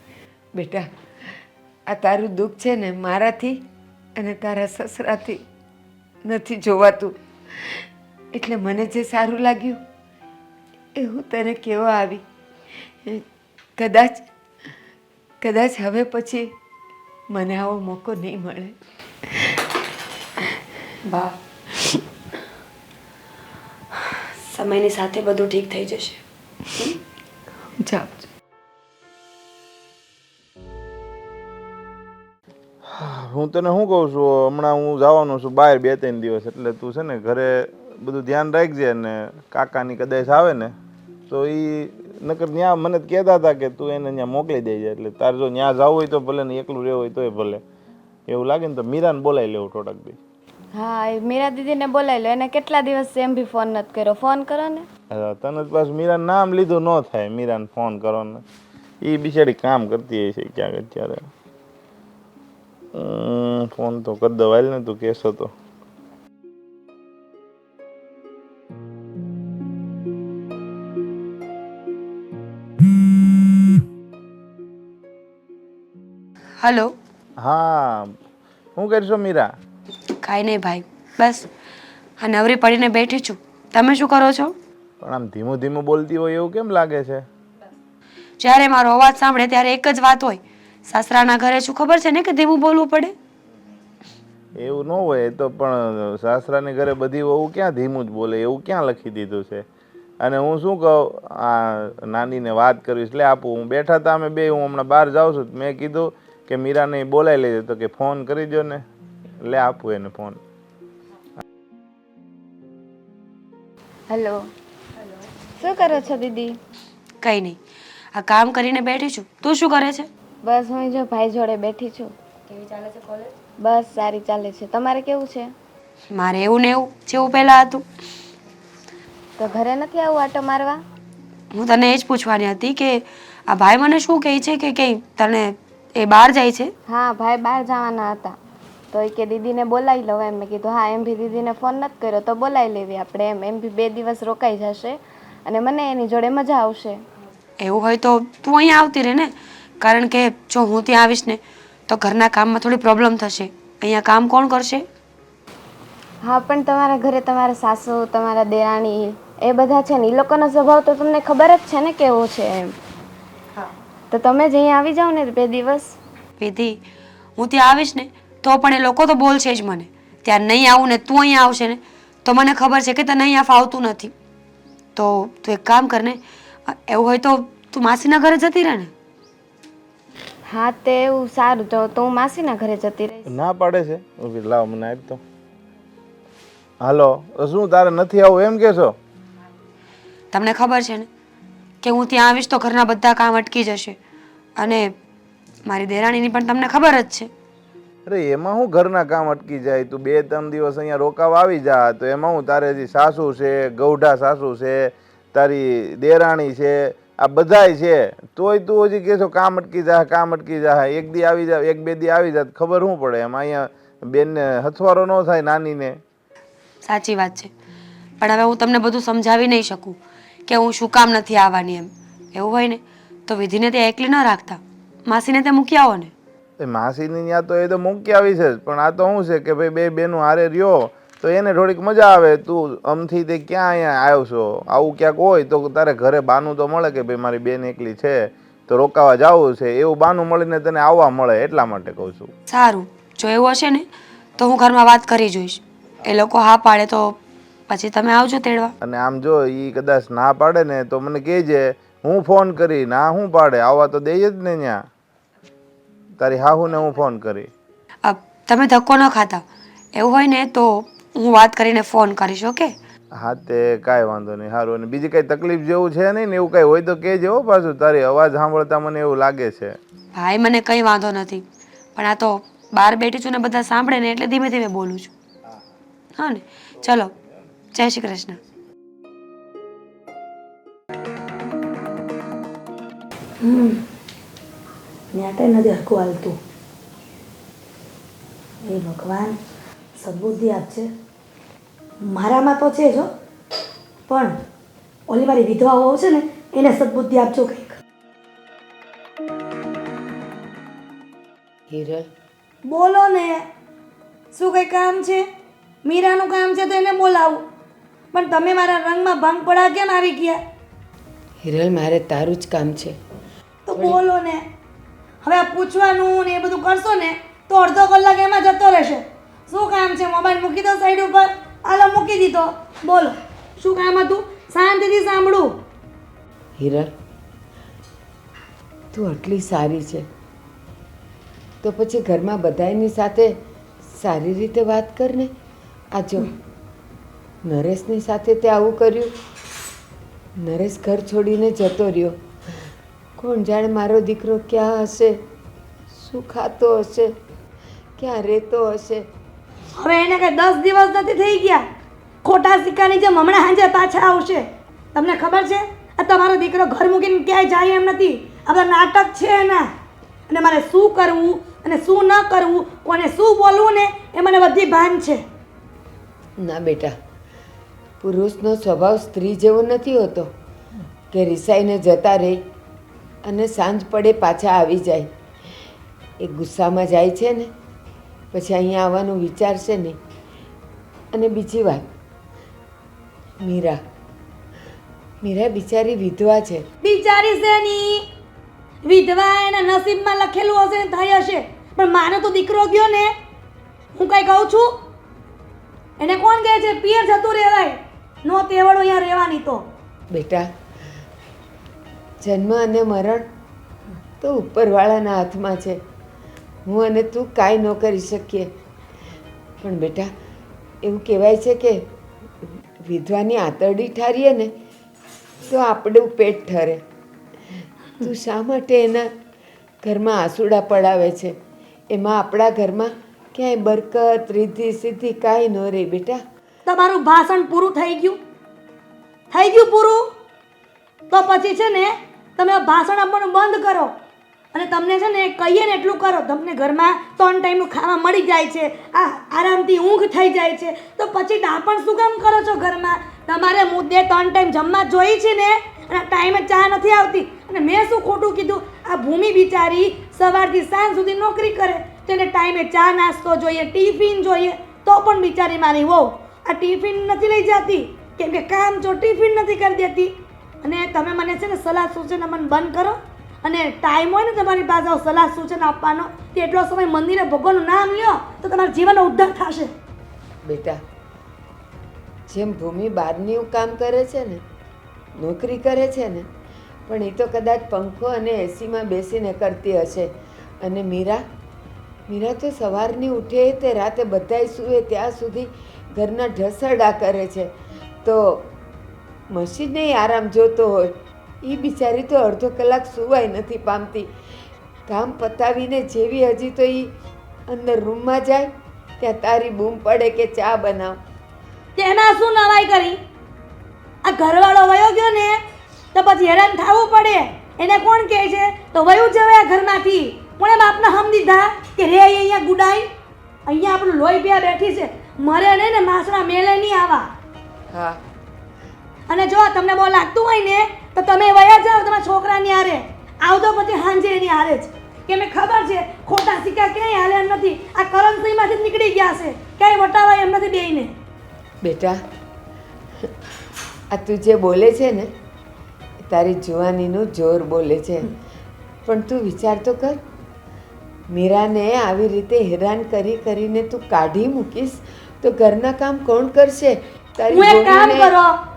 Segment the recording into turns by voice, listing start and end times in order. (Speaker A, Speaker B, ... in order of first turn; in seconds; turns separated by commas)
Speaker A: 0.5-0.9, Speaker A: 1.9-3.6, Speaker A: 4.2-5.4, Speaker A: 6.2-7.7, Speaker A: 8.3-9.8, Speaker A: 11.0-12.2, Speaker A: 13.8-14.2, Speaker A: 15.4-16.5, Speaker A: 17.3-18.7, Speaker A: 19.3-19.6, Speaker B: 21.1-21.4, Speaker B: 24.4-26.2, Speaker A: 27.8-28.2, Speaker C: 32.9-40.7, Speaker C: 41.3-47.6, Speaker C: 48.3-50.2, Speaker D: 50.7-54.9, Speaker C: 55.1-58.4, Speaker C: 59.0-61.2, Speaker C: 62.9-65.5, Speaker B: 76.6-76.9, Speaker C: 77.4-78.1, Speaker C: 78.8-79.5, Speaker B: 80.2-81.5, Speaker B: 82.2-84.5, Speaker C: 85.0-87.2, Speaker B: 88.4-93.1, Speaker C: 94.5-99.7, Speaker C: 100.2-108.8, Speaker C: 109.4-110.4, Speaker D: 114.1-114.5, Speaker D: 115.6-116.6, Speaker B: 117.2-117.6, Speaker B: 118.1-120.1, Speaker D: 120.4-122.1, Speaker B: 122.5-123.3, Speaker D: 123.6-125.5, Speaker B: 126.1-127.8, Speaker D: 129.4-130.8, Speaker B: 131.5-136.7, Speaker D: 136.9-138.4, Speaker D: 138.9-147.0, Speaker B: 147.6-154.8, Speaker D: 156.2-162.7, Speaker D: 164.1-165.9, Speaker B: 166.4-166.8, Speaker B: 167.4-174.1, Speaker B: 174.9-178.9, Speaker D: 180.5-183.3, Speaker C: 183.3-185.2, Speaker C: 186.8-188.9, Speaker B: 190.3-191.1, Speaker B: 191.8-194.0, Speaker B: 194.6-194.9, Speaker B: 195.7-197.3, Speaker C: 198.1-216.0, Speaker B: 216.8-217.5, Speaker B: 218.2-226.1, Speaker C: 226.6-242.3, Speaker B: 242.5-243.9, Speaker B: 244.4-248.7, Speaker C: 248.8-254.8, Speaker C: 256.2-257.5, Speaker B: 258.0-259.4, Speaker B: 259.9-262.7, Speaker C: 263.2-269.8, Speaker B: 270.1-271.4, Speaker B: 271.9-275.1, Speaker B: 276.1-277.1, Speaker B: 277.7-278.4, Speaker E: 283.4-283.8, Speaker E: 285.1-286.4, Speaker E: 288.6-289.4, Speaker E: 290.0-290.9, Speaker E: 292.0-293.1, Speaker E: 294.1-294.4, Speaker E: 295.1-297.8, Speaker A: 301.7-302.1, Speaker E: 302.6-303.4, Speaker E: 304.3-305.2, Speaker E: 305.8-307.4, Speaker E: 308.1-310.4, Speaker A: 311.4-312.9, Speaker E: 313.6-314.4, Speaker A: 313.7-314.0, Speaker E: 315.2-325.5, Speaker A: 326.6-326.9, Speaker A: 328.9-330.1, Speaker A: 331.6-333.3, Speaker A: 333.9-335.3, Speaker A: 335.9-336.3, Speaker A: 337.4-339.1, Speaker A: 340.4-342.2, Speaker A: 343.2-345.2, Speaker A: 345.9-347.1, Speaker A: 348.0-349.0, Speaker E: 349.8-351.6, Speaker E: 352.2-354.4, Speaker E: 354.9-359.7, Speaker E: 360.3-365.2, Speaker A: 366.4-366.9, Speaker A: 368.0-370.3, Speaker A: 371.1-372.4, Speaker A: 373.2-375.1, Speaker A: 376.2-377.5, Speaker A: 378.3-380.0, Speaker A: 381.1-381.9, Speaker A: 383.4-383.8, Speaker A: 385.2-386.6, Speaker E: 386.8-388.0, Speaker E: 388.8-393.1, Speaker E: 393.9-394.8, Speaker E: 396.0-399.6, Speaker A: 400.1-400.5, Speaker A: 402.2-403.2, Speaker A: 404.2-405.8, Speaker A: 406.6-408.5, Speaker A: 409.6-410.1, Speaker A: 410.8-411.8, Speaker A: 412.4-414.5, Speaker A: 415.5-416.8, Speaker A: 418.0-419.1, Speaker A: 419.8-421.3, Speaker A: 421.9-426.2, Speaker E: 426.6-428.2, Speaker E: 429.3-430.0, Speaker E: 431.1-433.9, Speaker E: 434.5-469.7, Speaker A: 470.4-470.8, Speaker A: 472.3-474.4, Speaker A: 475.2-476.2, Speaker A: 476.9-481.2, Speaker A: 482.1-487.5, Speaker A: 488.0-488.5, Speaker A: 489.3-494.1, Speaker A: 494.9-496.9, Speaker A: 497.5-498.5, Speaker A: 499.0-501.0, Speaker E: 501.8-503.0, Speaker E: 504.0-505.4, Speaker E: 505.9-512.9, Speaker E: 513.5-517.1, Speaker A: 517.7-518.0, Speaker E: 519.1-530.9, Speaker A: 531.6-532.0, Speaker A: 533.9-535.1, Speaker A: 536.1-538.1, Speaker A: 538.9-540.0, Speaker A: 541.1-548.1, Speaker E: 547.3-548.3